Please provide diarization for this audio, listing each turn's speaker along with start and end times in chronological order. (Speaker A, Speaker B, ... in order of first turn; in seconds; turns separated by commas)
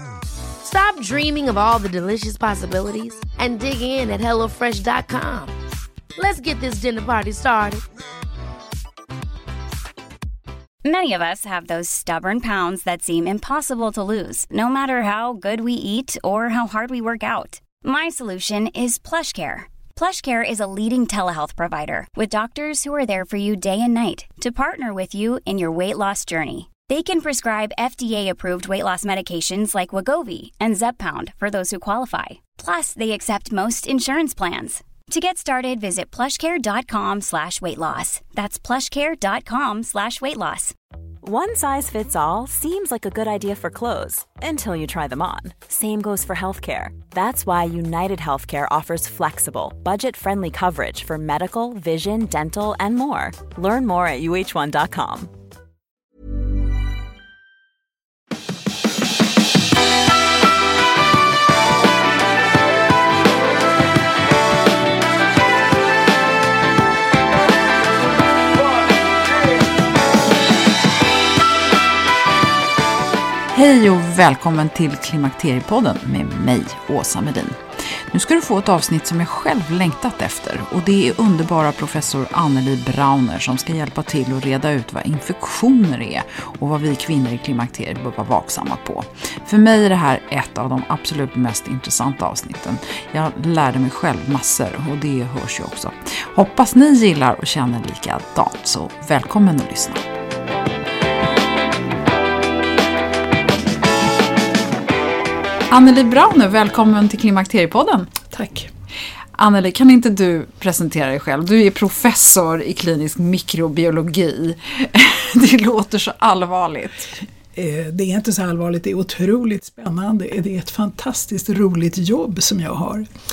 Speaker A: 0.6-5.5, Speaker A: 6.2-7.8, Speaker B: 10.8-40.8, Speaker C: 41.2-55.3, Speaker D: 73.5-77.6, Speaker D: 78.1-100.0, Speaker D: 105.7-108.2, Speaker E: 108.3-108.7, Speaker D: 109.4-117.2, Speaker E: 117.5-123.1